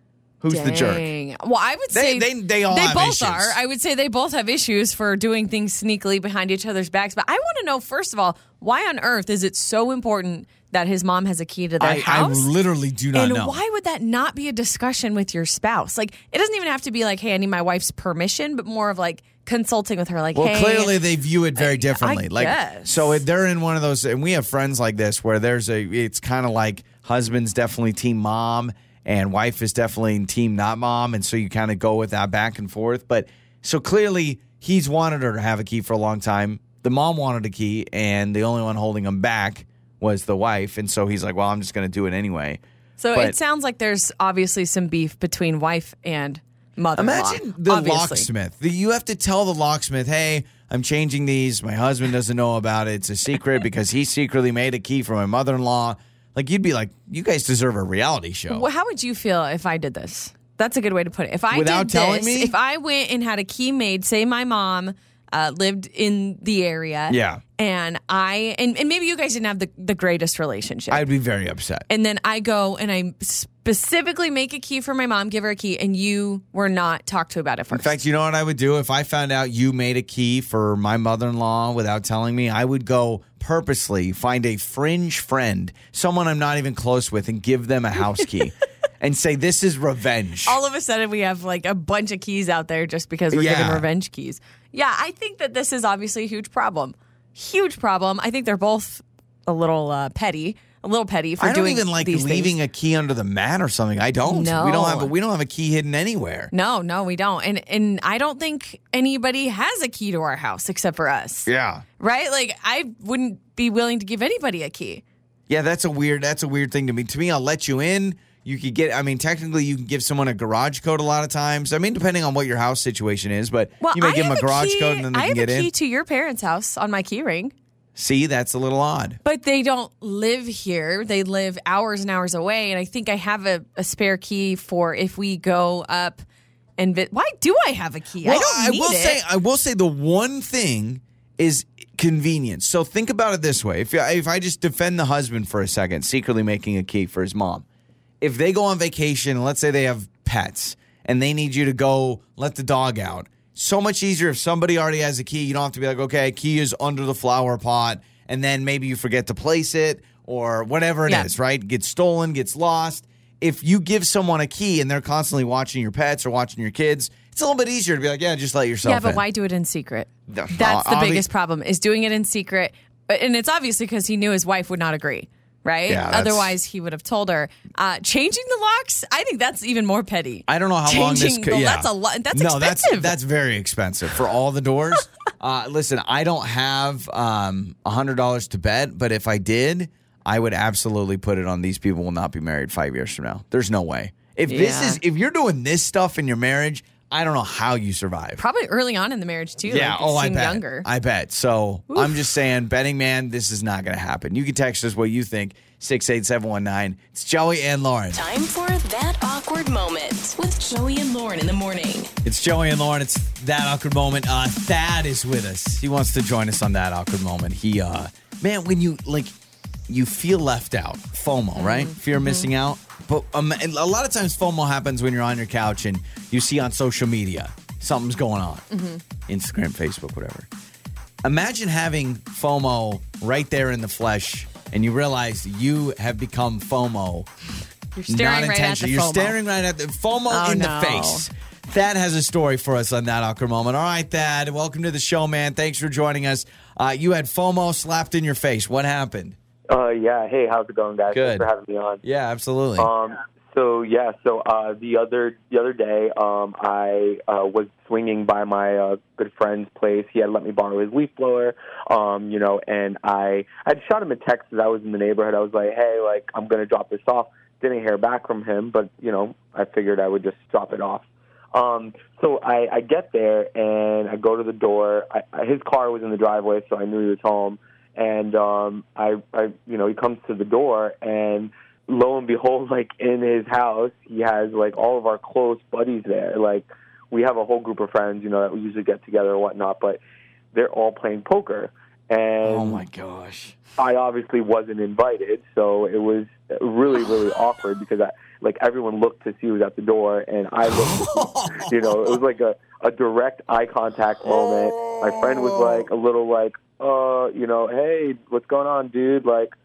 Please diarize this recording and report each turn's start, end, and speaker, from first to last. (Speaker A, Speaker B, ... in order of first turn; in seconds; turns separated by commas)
Speaker A: 0.4-1.1, Speaker B: 0.5-12.5, Speaker A: 1.9-3.6, Speaker A: 11.8-13.6, Speaker B: 13.1-21.0, Speaker A: 20.3-42.6, Speaker B: 21.6-23.2, Speaker B: 43.0-48.3, Speaker A: 47.0-58.7, Speaker B: 58.5-71.0, Speaker A: 61.5-62.5, Speaker A: 67.1-67.4, Speaker A: 70.9-71.8, Speaker B: 71.9-78.0, Speaker A: 77.7-90.6, Speaker B: 90.4-102.5, Speaker A: 93.3-93.8, Speaker A: 101.4-106.5, Speaker B: 104.2-105.1, Speaker B: 106.5-111.5, Speaker A: 111.5-111.8, Speaker B: 112.0-115.0, Speaker A: 115.5-125.7, Speaker B: 123.8-127.5, Speaker A: 127.9-129.2, Speaker B: 129.2-136.2, Speaker B: 136.8-139.2, Speaker A: 138.2-147.6, Speaker A: 148.2-169.2, Speaker B: 168.8-183.2, Speaker A: 170.3-171.3, Speaker A: 175.9-176.5, Speaker A: 180.5-198.4, Speaker B: 194.5-195.0, Speaker B: 198.4-200.8, Speaker A: 199.7-208.2, Speaker B: 201.9-202.2, Speaker C: 208.1-212.1, Speaker A: 212.2-219.3, Speaker A: 219.9-228.6, Speaker B: 221.6-222.5, Speaker B: 228.7-229.0, Speaker A: 229.3-230.5, Speaker A: 231.2-237.3, Speaker B: 237.9-239.4, Speaker A: 238.1-249.3, Speaker B: 240.3-241.2, Speaker D: 249.7-252.0, Speaker A: 251.1-251.5, Speaker A: 252.0-252.9, Speaker D: 252.8-290.0, Speaker D: 290.5-292.8, Speaker A: 292.4-293.6, Speaker D: 293.8-309.5, Speaker A: 300.6-302.2, Speaker A: 304.2-305.9